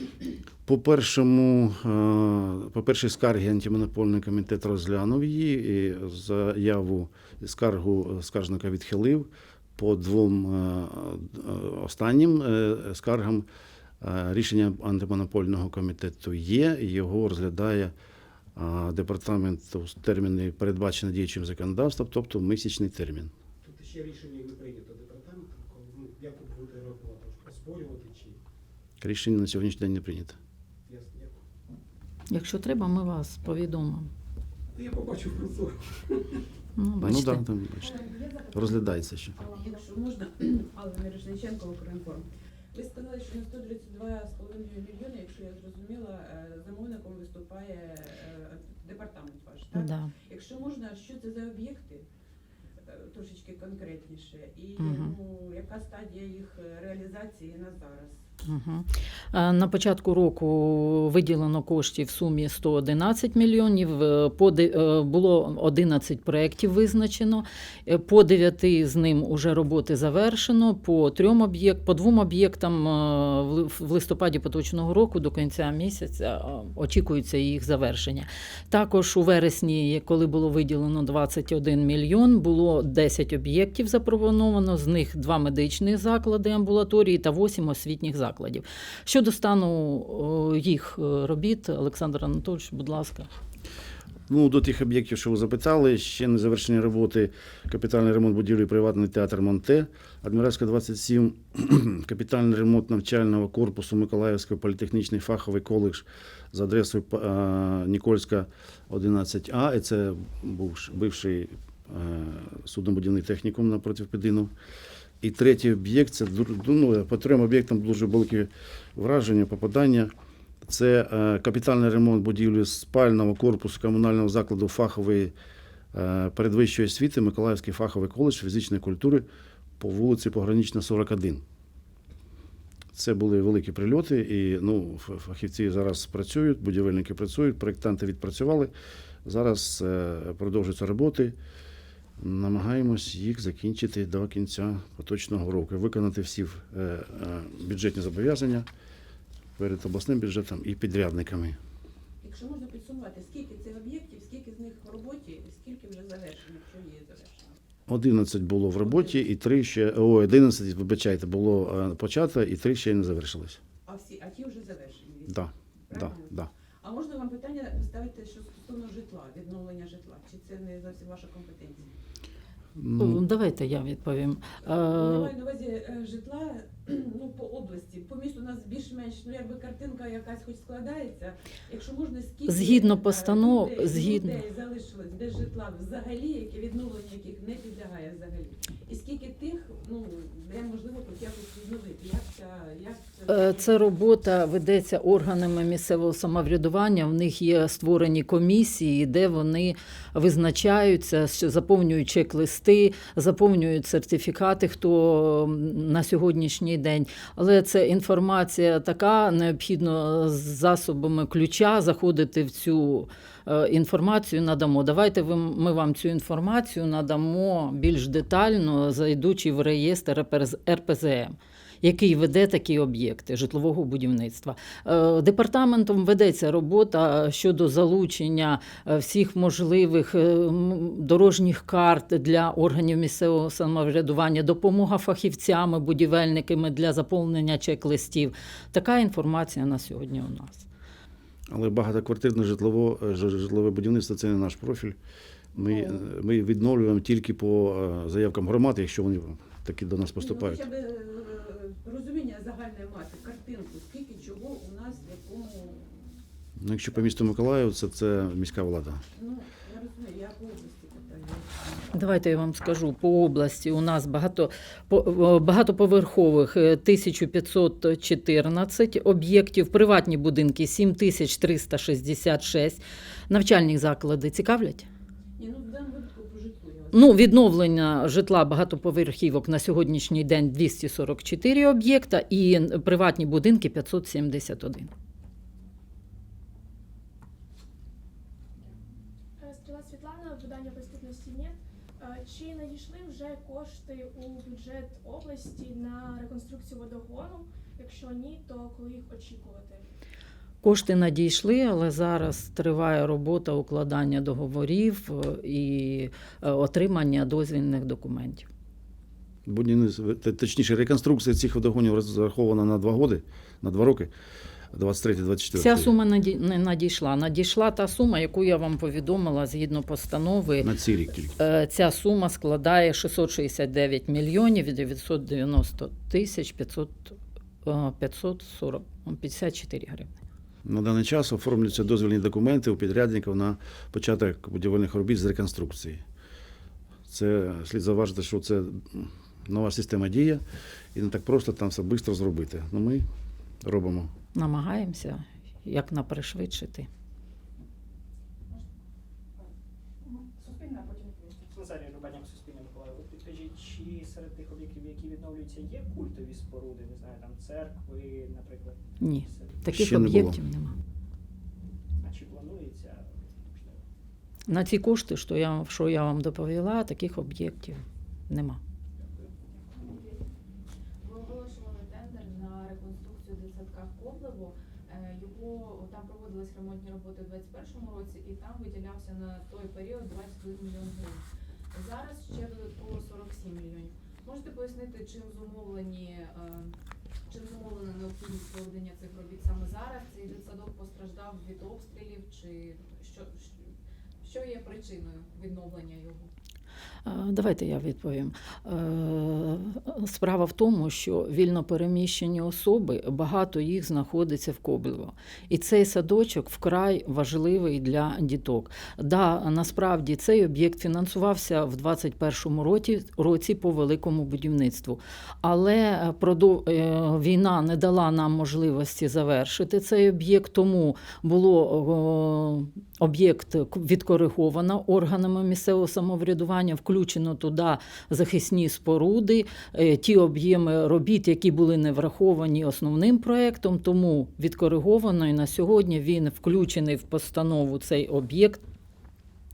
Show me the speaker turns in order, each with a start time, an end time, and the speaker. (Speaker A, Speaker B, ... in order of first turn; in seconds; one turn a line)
Speaker A: 0.7-13.4
Speaker A: 14.0-17.9
Speaker A: 18.5-23.3
Speaker B: 23.6-28.4
Speaker A: 29.0-30.4
Speaker B: 30.9-31.4
Speaker C: 32.3-34.1
Speaker B: 34.7-36.4
Speaker C: 36.8-37.4
Speaker A: 37.0-37.9
Speaker D: 37.8-39.9
Speaker A: 38.5-39.3
Speaker E: 39.5-52.0
Speaker C: 49.7-50.1
Speaker E: 52.8-58.2
Speaker C: 54.8-55.1
Speaker C: 58.5-93.3
Speaker A: 94.3-114.5
Speaker A: 115.2-120.1
Speaker A: 120.6-125.3
Speaker A: 125.9-129.2
Speaker A: 129.8-131.4
Speaker A: 132.9-138.7
Speaker A: 139.2-141.4
Speaker A: 142.2-148.7
Speaker A: 149.6-151.6
Speaker E: 152.2-157.6
Speaker A: 157.9-163.6
Speaker E: 158.8-159.2
Speaker E: 163.8-171.9
Speaker A: 165.3-166.5
Speaker A: 172.8-173.2
Speaker C: 173.0-175.3
Speaker E: 174.6-193.9
Speaker C: 182.5-184.4
Speaker C: 193.3-240.7
Speaker A: 241.5-245.0
Speaker A: 245.5-250.6
Speaker E: 245.6-246.1
Speaker E: 250.2-256.2
Speaker A: 256.6-259.0
Speaker E: 259.1-261.9
Speaker C: 261.9-274.9
Speaker E: 275.4-277.2
Speaker C: 276.9-284.9
Speaker F: 289.4-299.8
Speaker C: 300.6-308.5
Speaker A: 309.5-314.1
Speaker A: 314.7-315.9
Speaker C: 315.5-320.7
Speaker A: 320.6-321.3
Speaker C: 321.4-330.1
Speaker A: 330.6-336.0
Speaker A: 337.1-340.4
Speaker A: 340.9-343.1
Speaker A: 343.6-344.1
Speaker C: 344.3-346.9
Speaker D: 349.4-351.4
Speaker G: 351.5-359.6
Speaker C: 359.0-360.7
Speaker A: 359.6-360.4
Speaker G: 362.0-363.8
Speaker C: 364.5-368.6
Speaker D: 369.5-370.2
Speaker H: 371.0-386.7
Speaker H: 387.3-393.7
Speaker H: 394.2-396.3
Speaker C: 397.1-438.6